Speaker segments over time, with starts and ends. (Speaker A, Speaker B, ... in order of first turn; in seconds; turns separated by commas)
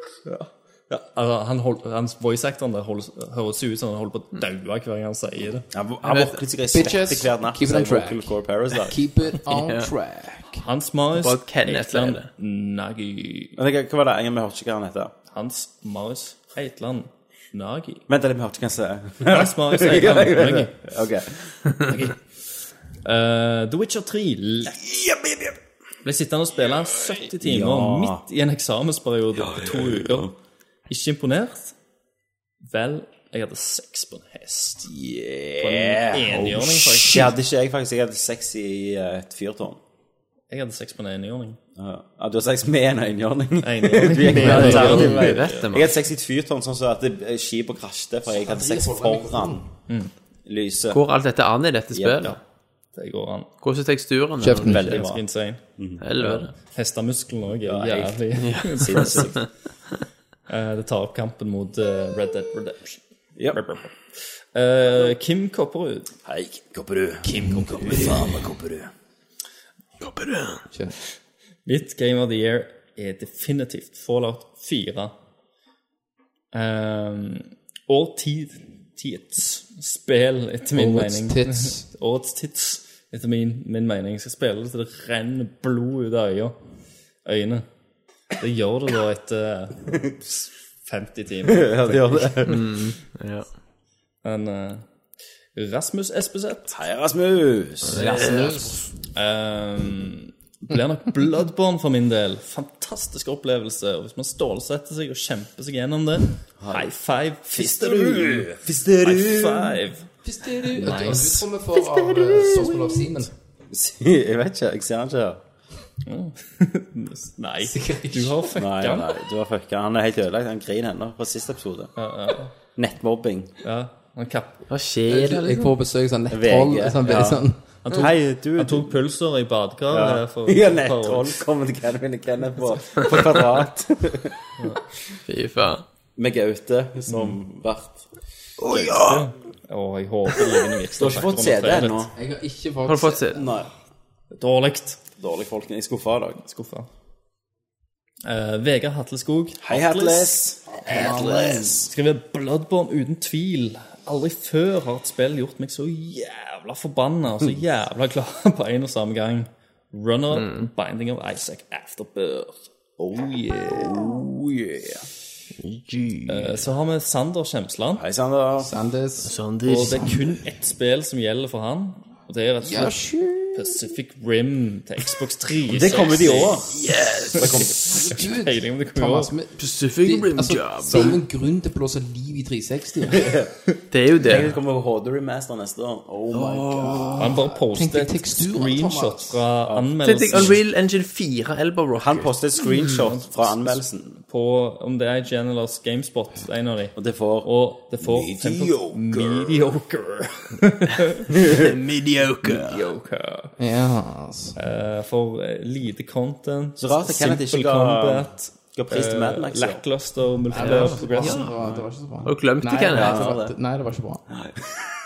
Speaker A: 0.2-5.7, Speaker B: 5.7-9.3, Speaker C: 6.0-6.4, Speaker D: 6.7-10.6, Speaker C: 9.5-9.9, Speaker A: 10.6-13.6, Speaker C: 11.2-12.3, Speaker B: 13.6-15.1, Speaker A: 15.3-18.0, Speaker B: 18.1-22.0, Speaker A: 19.2-20.8, Speaker A: 21.8-22.2, Speaker A: 23.0-24.9, Speaker A: 26.0-30.3, Speaker B: 27.4-28.2, Speaker B: 29.5-30.3, Speaker A: 30.9-31.7, Speaker A: 32.6-34.9, Speaker B: 34.9-39.8, Speaker A: 35.6-37.4, Speaker A: 40.5-41.6, Speaker B: 41.8-49.7, Speaker A: 43.6-45.7, Speaker C: 44.3-45.9, Speaker D: 48.3-49.6, Speaker B: 50.5-51.0, Speaker C: 50.9-52.3, Speaker B: 51.9-52.3, Speaker A: 52.9-53.5, Speaker C: 53.6-54.8, Speaker D: 54.4-55.0, Speaker B: 54.6-55.2, Speaker A: 54.6-59.4, Speaker B: 55.8-56.0, Speaker C: 56.0-56.5, Speaker B: 57.6-59.5, Speaker C: 58.4-59.5, Speaker A: 60.5-63.0, Speaker A: 63.5-63.9, Speaker A: 64.5-66.1, Speaker B: 66.2-68.9, Speaker D: 67.2-68.3, Speaker A: 67.4-68.0, Speaker C: 70.0-70.6, Speaker A: 71.6-75.1, Speaker A: 76.5-86.5, Speaker D: 80.7-81.8, Speaker A: 87.2-87.7, Speaker A: 88.4-90.0, Speaker A: 90.8-92.7, Speaker B: 91.4-92.7, Speaker C: 92.5-93.5, Speaker A: 94.2-94.8, Speaker A: 95.5-96.7, Speaker B: 96.7-98.3, Speaker C: 97.9-98.7, Speaker D: 97.9-98.8, Speaker A: 99.1-110.1, Speaker B: 106.6-106.9, Speaker B: 107.5-109.8, Speaker D: 110.2-113.3, Speaker A: 110.6-111.5, Speaker B: 112.0-112.8, Speaker B: 113.7-115.4, Speaker A: 116.0-119.2, Speaker D: 117.7-118.5, Speaker B: 118.5-121.9, Speaker A: 122.0-122.5, Speaker B: 122.7-123.6, Speaker A: 123.6-124.6, Speaker C: 124.7-125.7, Speaker D: 125.1-127.6, Speaker B: 126.3-129.0, Speaker A: 127.8-131.4, Speaker B: 129.9-134.4, Speaker C: 135.3-135.8, Speaker B: 136.2-138.0, Speaker A: 137.1-137.4, Speaker C: 138.6-139.2, Speaker B: 138.7-139.1, Speaker A: 138.8-142.1, Speaker B: 141.0-142.1, Speaker D: 142.1-143.5, Speaker C: 142.8-143.4, Speaker B: 143.3-143.7, Speaker A: 144.3-145.0, Speaker B: 145.2-146.4, Speaker A: 146.4-146.9, Speaker A: 148.2-150.4, Speaker B: 149.6-151.9, Speaker D: 150.7-151.8, Speaker A: 150.9-164.2, Speaker C: 160.3-160.7, Speaker C: 165.6-166.6, Speaker A: 166.3-168.0, Speaker B: 167.9-168.7, Speaker D: 168.6-169.3, Speaker C: 169.2-170.3, Speaker A: 169.6-173.0, Speaker D: 172.6-173.8, Speaker A: 173.5-176.7, Speaker B: 175.7-176.8, Speaker C: 176.7-177.4, Speaker B: 177.3-177.9, Speaker A: 177.4-179.3, Speaker D: 177.8-183.3, Speaker C: 179.6-181.2, Speaker E: 180.0-180.6, Speaker B: 183.1-183.5, Speaker C: 183.9-184.5, Speaker B: 184.2-187.2, Speaker E: 186.3-187.0, Speaker C: 186.4-187.2, Speaker A: 187.2-190.6, Speaker D: 187.4-189.4, Speaker B: 189.6-190.5, Speaker C: 190.0-192.3, Speaker B: 192.0-194.2, Speaker A: 192.8-201.3, Speaker B: 196.9-197.5, Speaker E: 198.0-199.7, Speaker E: 201.5-202.8, Speaker A: 202.4-203.5, Speaker D: 203.6-204.6, Speaker A: 204.6-211.5, Speaker B: 206.8-209.8, Speaker D: 210.5-214.2, Speaker C: 210.6-211.5, Speaker B: 211.6-211.8, Speaker C: 212.2-213.4, Speaker B: 212.9-213.5, Speaker B: 214.3-214.8